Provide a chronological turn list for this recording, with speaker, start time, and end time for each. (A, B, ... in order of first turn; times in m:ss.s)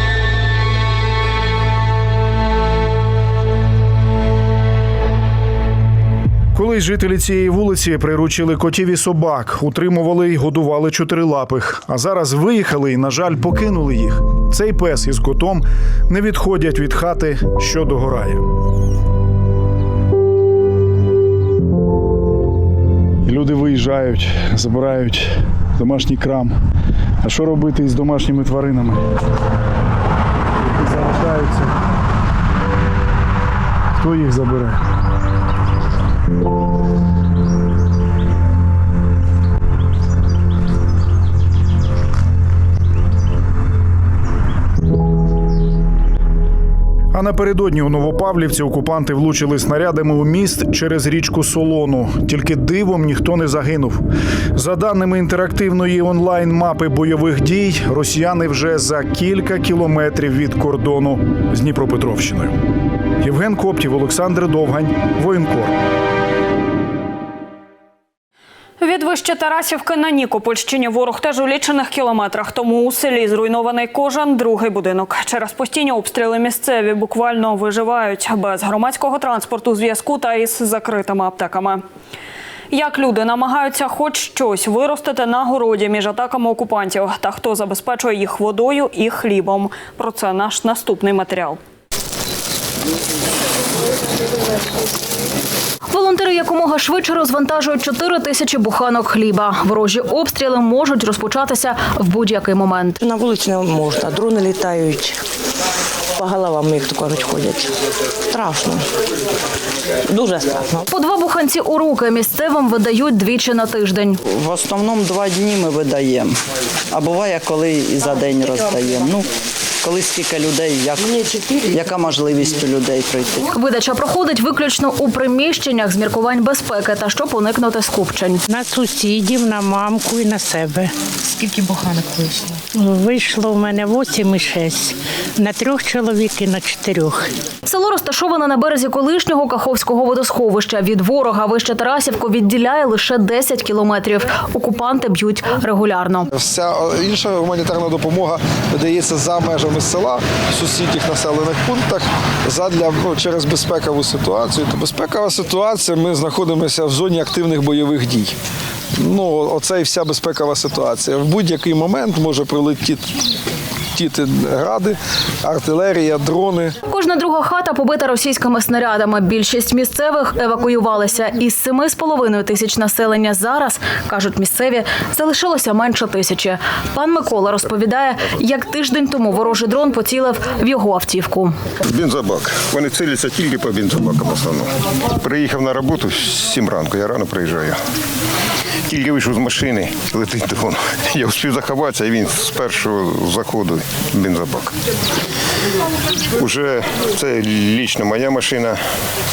0:06.5-0:18.5 A
0:23.2-0:26.6 A
0:27.2-0:29.1 A
0:30.7-0:31.8 A
0:33.9-0:34.8 A
0:47.1-0:54.0 A
0:54.6-1:02.6 A
1:03.2-1:05.8 A
1:08.8-1:21.8 B
1:22.7-1:31.6 B
1:35.9-1:43.0 C
1:43.0-1:45.2 D
1:46.2-1:47.7 D
1:48.3-1:48.8 D
1:50.1-1:50.8 D
1:50.9-1:54.2 C
1:54.2-1:56.4 E
1:56.9-1:59.3 E
1:59.8-2:03.5 E
2:03.5-2:08.4 C
2:08.5-2:10.9 F
2:12.7-2:17.3 F
2:17.7-2:26.3 C
2:26.3-2:38.4 G
2:39.0-2:43.0 G
2:43.9-2:46.7 G
2:46.8-3:01.6 C
3:01.9-3:07.8 H
3:08.9-3:14.7 H
3:16.4-3:18.8 H